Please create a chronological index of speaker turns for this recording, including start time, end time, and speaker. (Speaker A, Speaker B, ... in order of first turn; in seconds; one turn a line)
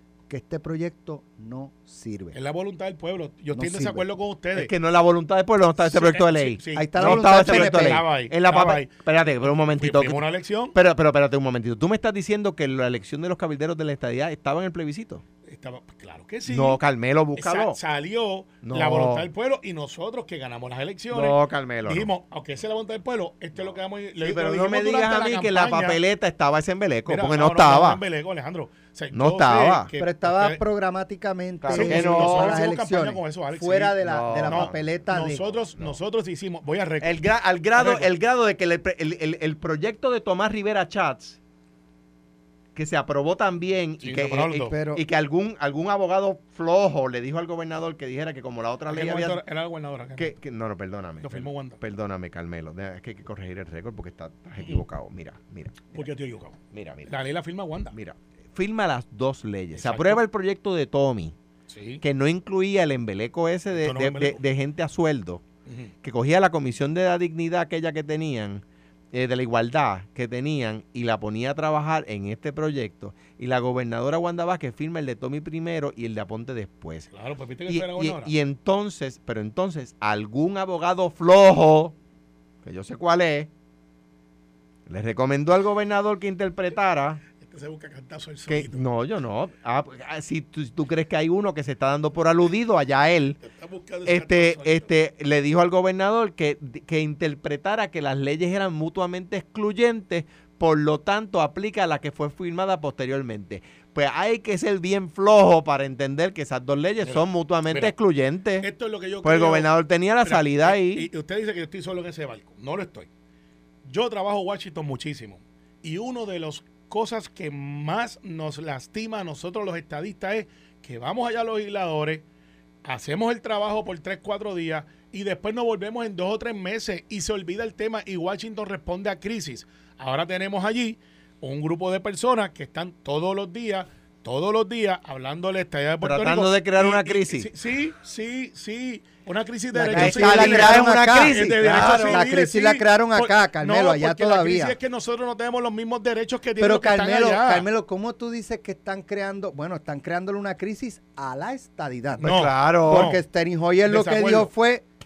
Speaker A: 0.3-2.4
Speaker B: 2.3-4.7
Speaker A: 3.5-4.0
Speaker C: 4.5-15.2
Speaker B: 5.8-10.8
Speaker A: 6.7-8.0
Speaker B: 15.4-16.8
Speaker C: 16.5-17.8
Speaker B: 17.3-26.0
Speaker C: 18.6-19.3
Speaker C: 21.1-22.1
Speaker C: 24.2-28.0
Speaker B: 27.1-30.6
Speaker C: 29.1-29.9
Speaker A: 30.0-35.4
Speaker C: 31.6-32.6
Speaker B: 31.7-37.2
Speaker C: 34.0-34.8
Speaker C: 37.0-41.4
Speaker B: 37.7-38.1
Speaker C: 42.7-49.4
Speaker B: 44.0-44.7
Speaker A: 44.7-45.0
Speaker B: 48.9-50.3
Speaker C: 50.2-56.1
Speaker B: 51.2-51.8
Speaker B: 55.9-57.9
Speaker C: 56.7-57.1
Speaker C: 57.9-61.3
Speaker B: 59.7-60.2
Speaker B: 61.7-62.0
Speaker C: 62.0-65.4
Speaker B: 63.7-64.4
Speaker B: 65.7-65.9
Speaker C: 66.0-77.1
Speaker B: 77.1-78.3
Speaker C: 77.7-81.9
Speaker C: 82.6-83.5
Speaker C: 84.9-87.2
Speaker B: 87.4-88.8
Speaker C: 88.5-93.4
Speaker B: 93.4-94.9
Speaker C: 94.0-108.7
Speaker B: 107.0-107.9
Speaker B: 108.6-109.7
Speaker C: 109.2-111.1
Speaker B: 110.2-113.1
Speaker B: 113.8-122.2
Speaker B: 122.8-147.7
Speaker C: 136.0-137.5
Speaker A: 139.7-144.8
Speaker C: 139.9-142.2
Speaker A: 146.6-152.3
Speaker C: 152.2-153.1
Speaker B: 152.2-153.2
Speaker A: 152.8-154.8
Speaker B: 153.8-154.5